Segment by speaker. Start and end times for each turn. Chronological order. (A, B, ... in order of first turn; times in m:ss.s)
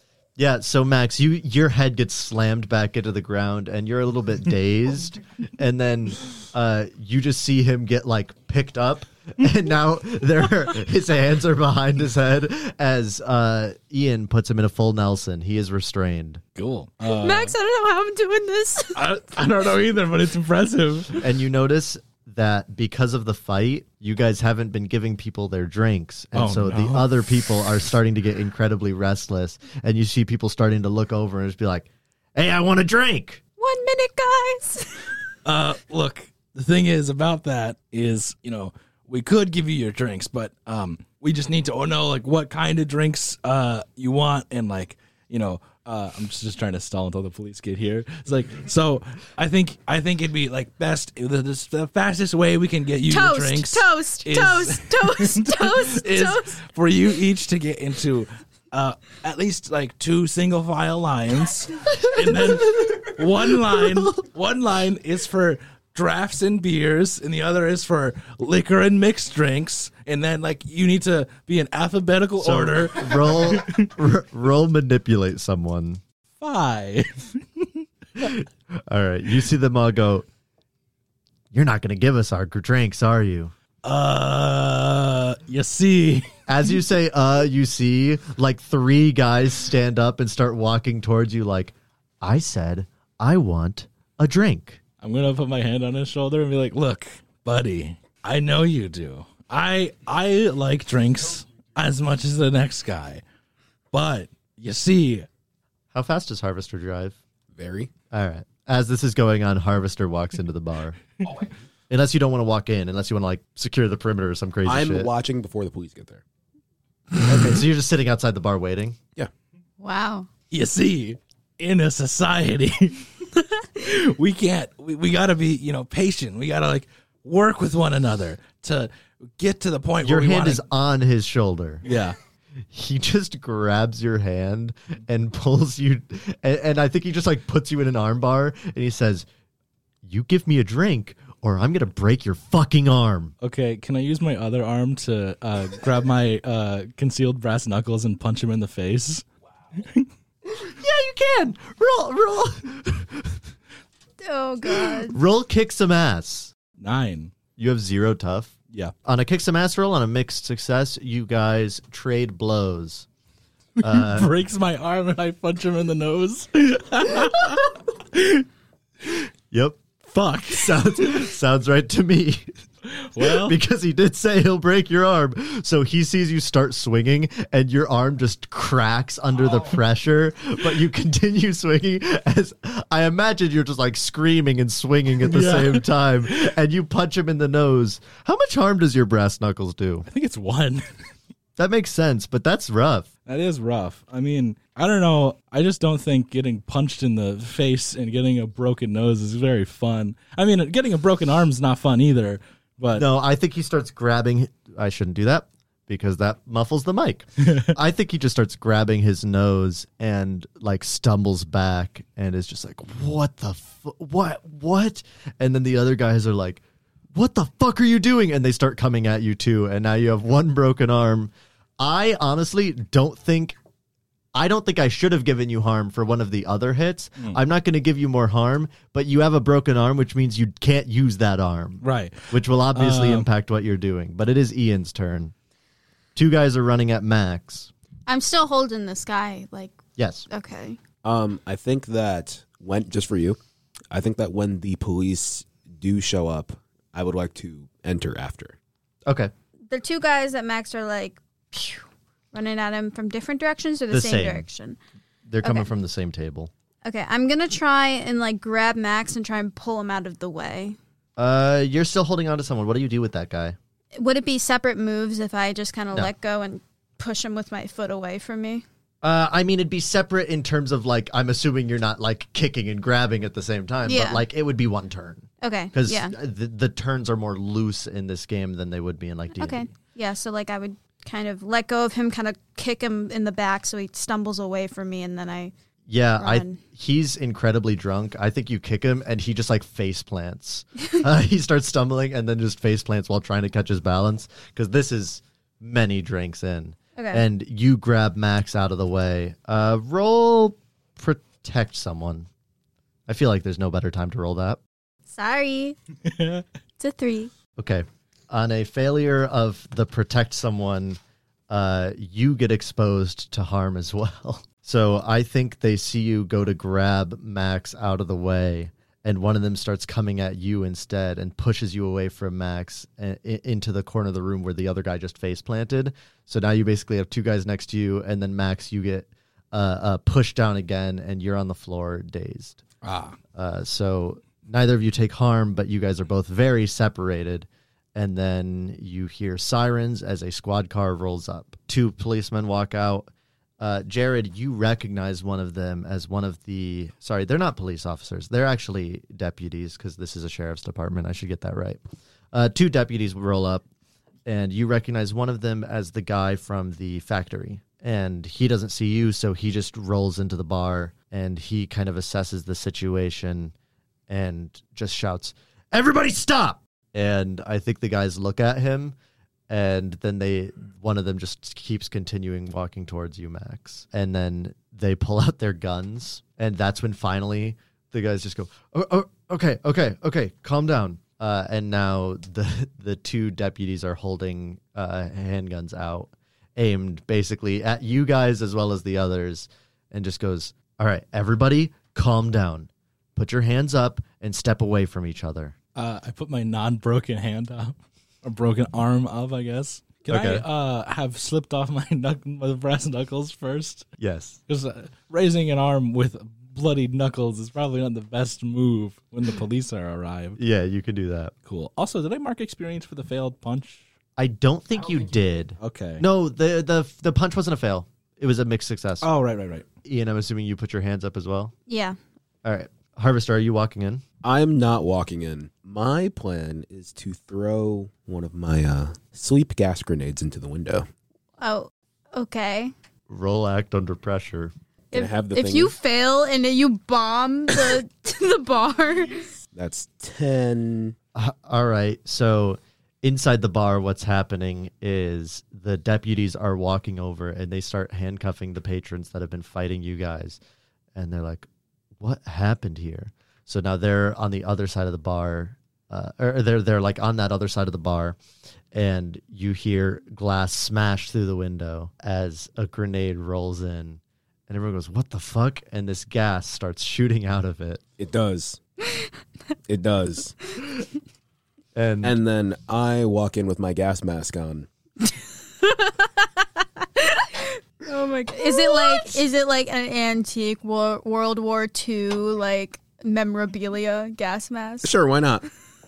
0:00.4-0:16.4 A
0:16.6-0:17.5 B
0:17.0-0:19.0 C
0:18.9-0:21.2 B
0:21.2-0:33.4 A
0:26.3-0:27.5 B
0:33.6-0:35.2 C
0:35.4-1:13.9 B
0:53.1-0:56.6 C
1:12.4-1:16.0 A
1:16.4-1:17.8 B
1:18.2-1:20.2 A
1:21.5-1:23.5 A
1:23.8-1:26.3 B
1:26.5-1:34.8 A
1:35.0-1:43.2 B
1:43.9-1:45.2 B
1:45.9-1:47.2 A
1:47.5-1:47.9 D
1:48.1-1:51.0 A
1:51.9-1:55.1 A
1:54.6-1:56.2 D
1:57.2-1:59.0 A
1:59.8-2:00.3 C
2:00.5-2:03.1 B
2:03.6-2:10.6 B
2:10.0-2:11.8 A
2:11.8-2:12.2 B
2:12.7-2:19.2 A
2:20.0-2:23.3 A
2:23.4-2:30.1 B
2:30.5-2:33.4 A
2:34.2-2:35.2 C
2:34.8-2:36.5 A
2:36.8-2:37.3 B
2:37.6-2:38.5 A
2:39.0-2:43.0 A
2:43.8-2:48.4 B
2:43.8-2:44.3 A
2:49.5-2:52.5 A
2:53.0-2:53.6 B
2:53.2-3:10.0 A
3:05.2-3:05.8 B
3:10.1-3:10.9 B
3:11.6-3:13.1 A
3:13.2-3:23.0 B
3:22.9-3:36.6 A
3:37.1-3:43.6 A
3:44.3-3:55.3 A
3:51.8-3:53.3 B
3:56.2-3:57.7 A
3:58.1-4:00.8 C
4:00.0-4:00.2 A
4:01.0-4:03.4 D
4:03.9-4:08.6 D
4:09.0-4:09.3 A
4:09.7-4:14.8 C
4:13.9-4:14.4 A
4:15.3-4:16.5 A
4:15.4-4:15.7 C
4:16.8-4:20.8 C
4:21.2-4:23.6 A
4:23.9-4:28.6 C
4:29.0-4:39.7 A
4:33.8-4:34.2 C
4:35.4-4:36.1 C
4:39.4-4:45.5 C
4:45.9-5:02.3 A
4:46.2-4:46.6 C
4:57.0-4:57.2 C
5:03.1-5:04.6 A
5:05.1-5:05.8 C
5:06.0-5:06.4 B
5:06.8-5:07.3 C
5:07.6-5:32.6 A
5:32.8-5:33.2 B
5:33.3-5:43.1 A
5:43.6-5:51.8 A
5:52.3-5:53.6 A
5:54.2-6:03.5 A
6:04.1-6:09.0 A
6:09.5-6:35.5 A
6:35.8-6:43.8 B
6:40.1-6:40.4 A
6:44.0-6:44.4 A
6:44.5-6:50.4 B
6:50.4-6:51.3 A
6:51.4-6:53.8 B
6:54.2-6:59.1 A
6:55.6-6:56.0 B
6:59.0-6:59.6 B
6:59.8-7:01.5 A
7:01.7-7:02.0 C
7:02.4-7:04.0 A
7:04.2-7:10.9 D
7:11.4-7:12.7 C
7:13.1-7:14.5 A
7:14.9-7:19.3 C
7:14.9-7:15.7 D
7:19.5-7:20.9 D
7:21.1-7:30.4 A
7:30.9-7:31.5 A
7:32.0-7:38.2 A
7:38.7-7:47.8 A
7:48.0-7:48.6 D
7:49.7-7:50.4 D
7:51.7-7:52.2 A
7:52.0-7:54.7 D
7:55.6-8:04.9 C
8:04.8-8:05.4 D